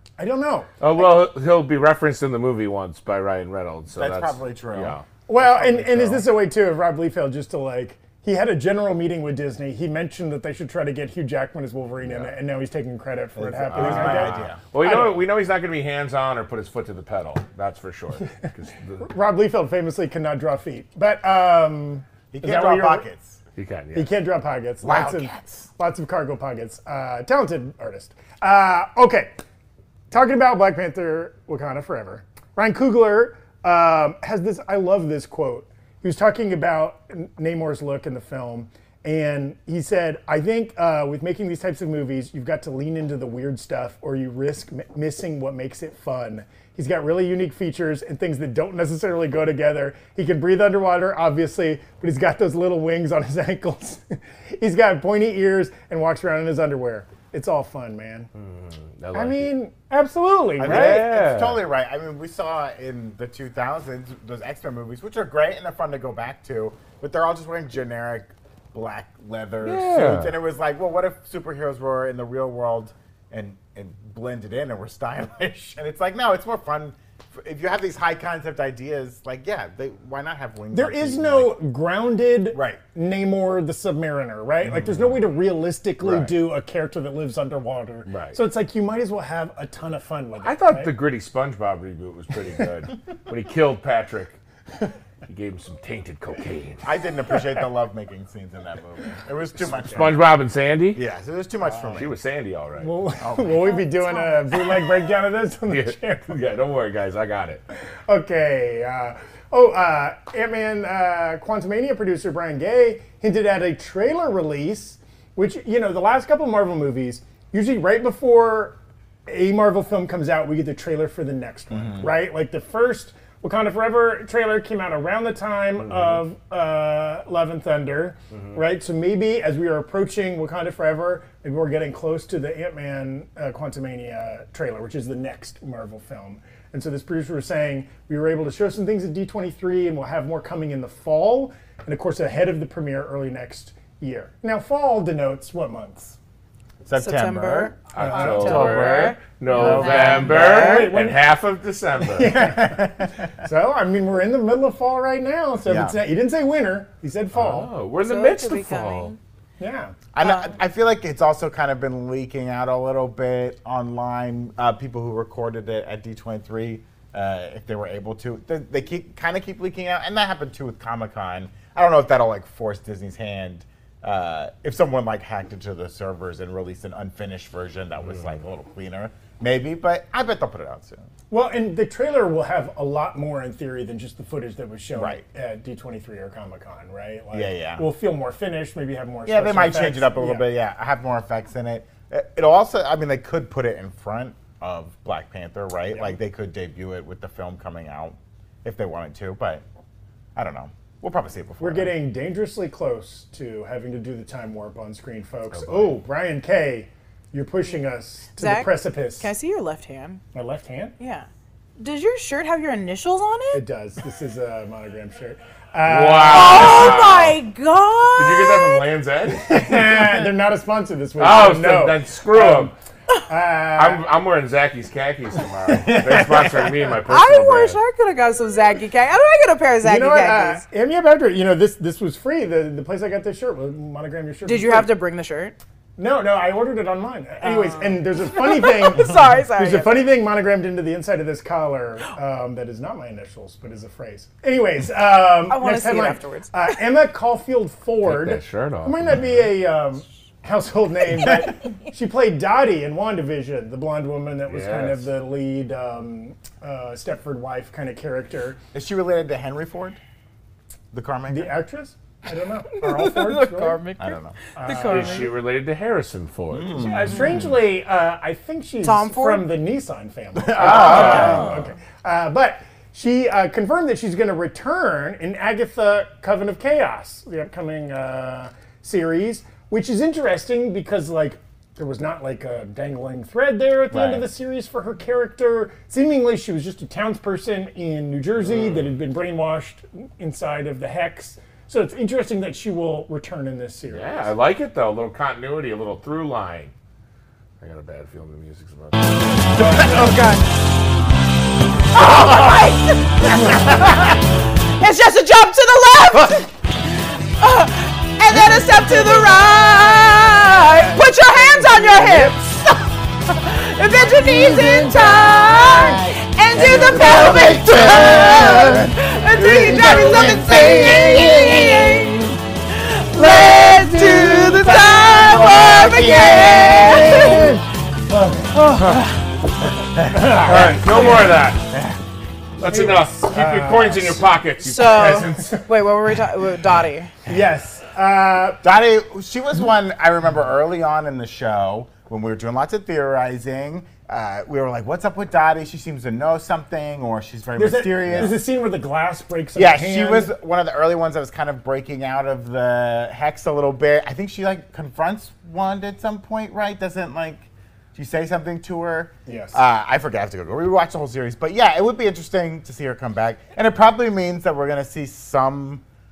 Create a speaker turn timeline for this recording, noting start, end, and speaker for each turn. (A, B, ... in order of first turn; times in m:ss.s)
0:00.2-0:00.7 A
0:00.8-0:05.0 B
0:03.9-0:06.2 C
0:05.3-0:15.2 A
0:12.0-0:12.3 B
0:13.4-0:14.6 C
0:13.7-0:19.0 B
0:19.0-0:23.0 A
0:22.3-0:23.4 C
0:23.6-0:24.1 B
0:23.9-0:29.3 A
0:24.8-0:25.7 C
0:30.1-0:58.3 A
0:58.4-0:59.5 B
0:59.1-1:01.1 A
1:00.6-1:21.6 C
1:00.6-1:01.6 B
1:09.6-1:10.3 B
1:20.7-1:30.9 A
1:22.5-1:22.8 C
1:26.0-1:26.3 B
1:28.1-1:28.4 B
1:30.4-1:34.4 B
1:35.3-1:36.8 B
1:36.8-1:40.3 C
1:39.9-1:41.0 B
1:40.9-1:42.1 C
1:41.9-1:42.9 B
1:42.8-1:46.3 A
1:43.2-1:43.8 C
1:43.6-1:44.6 D
1:45.7-1:47.6 B
1:48.1-1:58.8 A
1:59.3-2:26.2 A
2:01.7-2:02.0 C
2:05.9-2:06.2 B
2:26.8-2:28.9 C
2:27.0-2:30.9 D
2:27.9-2:32.4 B
2:28.0-2:28.9 A
2:29.5-2:30.6 C
2:29.6-2:31.2 A
2:32.1-2:37.7 A
2:32.3-2:33.3 C
2:35.7-2:36.0 C
2:37.3-2:39.1 B
2:38.0-2:39.2 D
2:39.6-2:39.9 A
2:40.1-3:01.0 C
2:40.2-2:40.5 D
3:01.3-3:10.5 A
3:05.0-3:05.2 C
3:07.3-3:07.8 C
3:09.2-3:19.6 C
3:20.4-3:21.9 C
3:21.6-3:29.3 A
3:25.6-3:25.9 B
3:28.4-3:30.2 D
3:30.3-3:31.0 A
3:31.0-3:31.3 D
3:31.8-3:33.6 D
3:33.5-3:37.0 A
3:35.8-3:37.4 B
3:36.2-3:38.9 D
3:38.2-3:40.0 B
3:39.3-3:42.7 A
3:41.2-3:42.7 B
3:43.3-3:44.0 A
3:43.8-3:47.8 B
3:45.7-3:46.9 A
3:47.1-3:50.6 D
3:49.8-3:54.9 A
3:54.4-3:55.6 D
3:56.0-4:18.6 A
3:57.4-4:00.0 D
4:05.5-4:06.5 D
4:08.0-4:09.4 B
4:14.5-4:15.0 B
4:18.7-4:20.0 C
4:20.9-4:21.6 C
4:21.3-4:23.8 A
4:22.7-4:25.3 D
4:24.0-4:24.4 C
4:24.5-4:25.3 A
4:24.7-4:26.9 B
4:26.5-4:27.4 C
4:26.7-4:54.3 A
4:28.8-4:29.5 D
4:30.4-4:31.6 C
4:30.6-4:31.5 B
4:30.7-4:31.6 D
4:43.9-4:44.2 C
4:48.5-4:48.8 B
4:53.9-4:56.7 B
4:57.6-4:59.0 B
4:59.6-5:00.4 D
5:01.9-5:06.5 D
5:07.4-5:27.5 D
5:10.9-5:12.5 A
5:14.0-5:22.3 C
5:23.1-5:27.6 C
5:27.0-5:28.8 A
5:30.0-5:32.0 C
5:30.1-5:30.8 A
5:30.3-5:31.7 B
5:32.6-5:35.6 B
5:32.6-5:34.3 A
5:34.6-5:37.1 D
5:35.1-5:35.6 A
5:37.2-5:38.6 A
5:38.6-5:48.4 C
5:47.6-5:50.3 A
5:49.6-6:05.8 C
5:59.3-5:59.6 A